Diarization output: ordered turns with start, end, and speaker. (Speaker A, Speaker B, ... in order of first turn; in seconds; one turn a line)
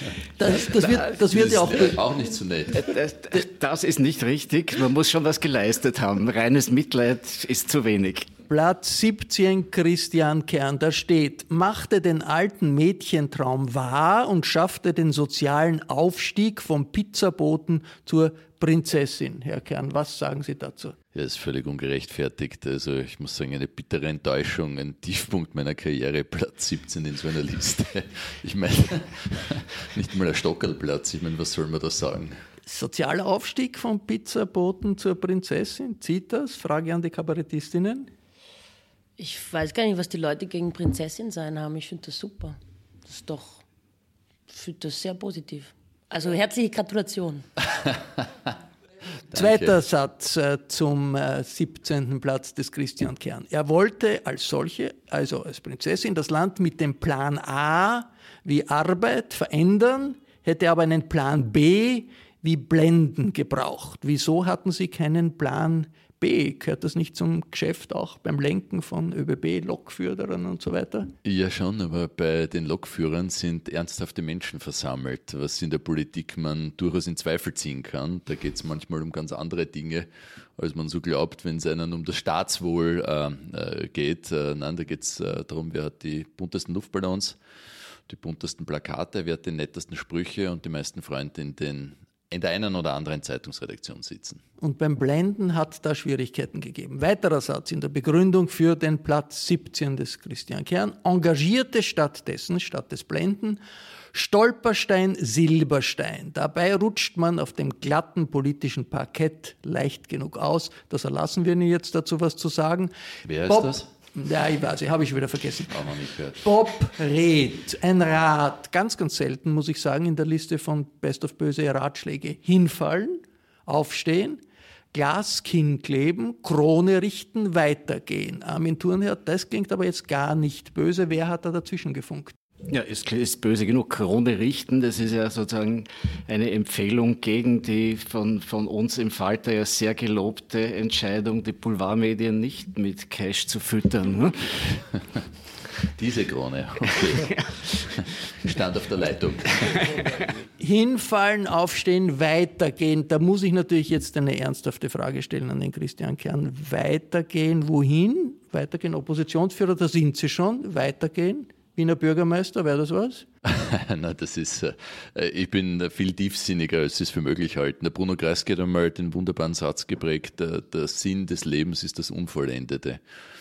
Speaker A: 0.4-2.0
Speaker B: 0.8-2.8
Speaker C: 2.7-8.3
Speaker A: 8.5-20.9
Speaker B: 21.1-32.4
Speaker A: 32.7-38.1
Speaker D: 39.2-42.6
Speaker D: 43.1-43.6
Speaker D: 44.5-47.5
Speaker B: 49.3-49.8
Speaker A: 49.3-71.1
Speaker B: 71.2-87.4
Speaker B: 88.1-94.4
Speaker A: 94.6-103.6
Speaker A: 104.1-112.9
Speaker B: 113.2-113.9
Speaker A: 113.5-115.9
Speaker B: 115.7-116.5
Speaker A: 116.4-124.4
Speaker A: 124.9-132.3
Speaker C: 132.7-144.5
Speaker B: 145.9-147.3
Speaker C: 147.0-147.8
Speaker B: 147.9-149.9
Speaker C: 149.6-150.3
Speaker A: 150.6-163.3
Speaker B: 163.4-173.0